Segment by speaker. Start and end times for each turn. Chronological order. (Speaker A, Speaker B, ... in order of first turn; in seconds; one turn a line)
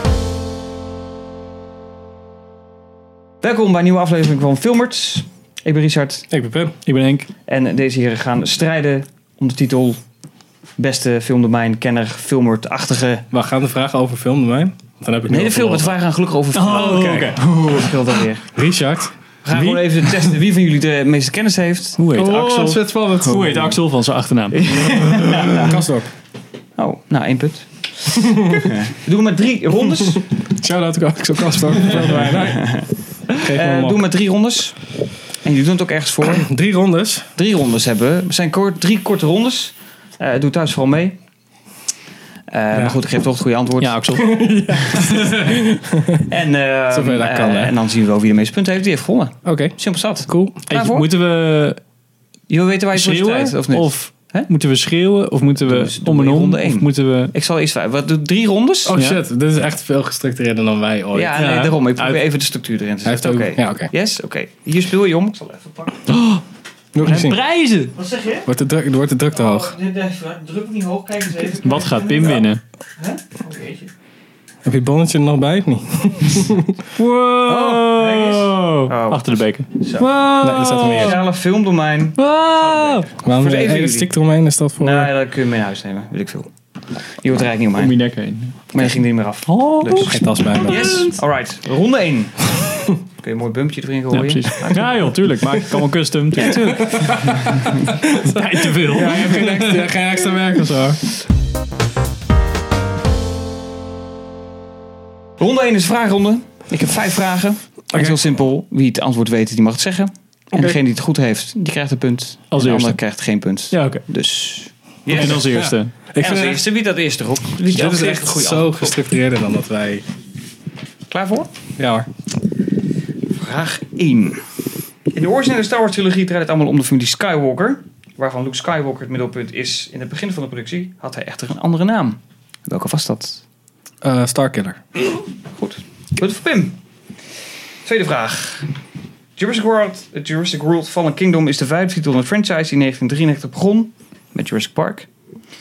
Speaker A: 3.4-6.3
Speaker B: 6.3-6.8
Speaker C: 6.8-7.3
Speaker A: 7.5-10.0
Speaker A: 10.8-13.2
Speaker B: 13.3-16.0
Speaker A: 15.3-18.5
Speaker C: 16.5-18.0
Speaker B: 18.5-19.8
Speaker A: 19.4-23.7
Speaker C: 22.0-22.6
Speaker B: 22.1-23.8
Speaker C: 23.2-24.6
Speaker A: 24.5-25.8
Speaker B: 24.7-26.1
Speaker A: 26.8-30.2
Speaker B: 28.2-28.7
Speaker B: 30.0-32.8
Speaker A: 32.0-34.8
Speaker B: 33.4-34.0
Speaker A: 35.4-36.5
Speaker B: 36.3-37.3
Speaker A: 37.4-41.2
Speaker A: 42.5-44.0
Speaker C: 43.8-45.2
Speaker B: 44.1-46.3
Speaker A: 46.2-51.0
Speaker B: 46.9-47.7
Speaker B: 49.4-50.6
Speaker C: 50.7-51.8
Speaker A: 52.5-54.5
Speaker C: 52.9-57.3
Speaker A: 55.6-58.9
Speaker B: 58.8-61.7
Speaker C: 58.9-59.2
Speaker A: 61.1-66.1
Speaker C: 61.3-62.2
Speaker B: 63.0-63.9
Speaker C: 66.1-66.4
Speaker B: 66.9-67.4
Speaker C: 67.0-67.9
Speaker A: 67.9-68.5
Speaker B: 68.5-69.7
Speaker A: 69.3-72.5
Speaker C: 71.6-72.6
Speaker A: 73.0-73.9
Speaker B: 74.6-76.9
Speaker C: 77.0-81.2
Speaker A: 77.5-80.1
Speaker B: 80.4-81.2
Speaker A: 80.9-84.1
Speaker C: 82.2-83.1
Speaker B: 83.2-85.1
Speaker A: 84.8-86.5
Speaker A: 87.2-87.9
Speaker C: 87.8-88.9
Speaker A: 88.7-95.1
Speaker C: 89.5-91.2
Speaker B: 90.1-91.1
Speaker C: 94.1-99.9
Speaker A: 96.3-97.9
Speaker B: 96.6-101.0
Speaker A: 105.4-115.5
Speaker B: 107.9-108.3
Speaker B: 110.5-110.8
Speaker C: 112.5-113.0
Speaker C: 113.7-114.0
Speaker C: 115.1-115.9
Speaker B: 115.2-116.6
Speaker A: 116.2-119.0
Speaker B: 117.6-120.0
Speaker A: 121.1-121.5
Speaker B: 121.8-122.1
Speaker A: 123.3-124.4
Speaker A: 125.1-133.4
Speaker B: 134.0-134.8
Speaker A: 135.6-136.8
Speaker A: 137.8-138.7
Speaker A: 139.4-145.1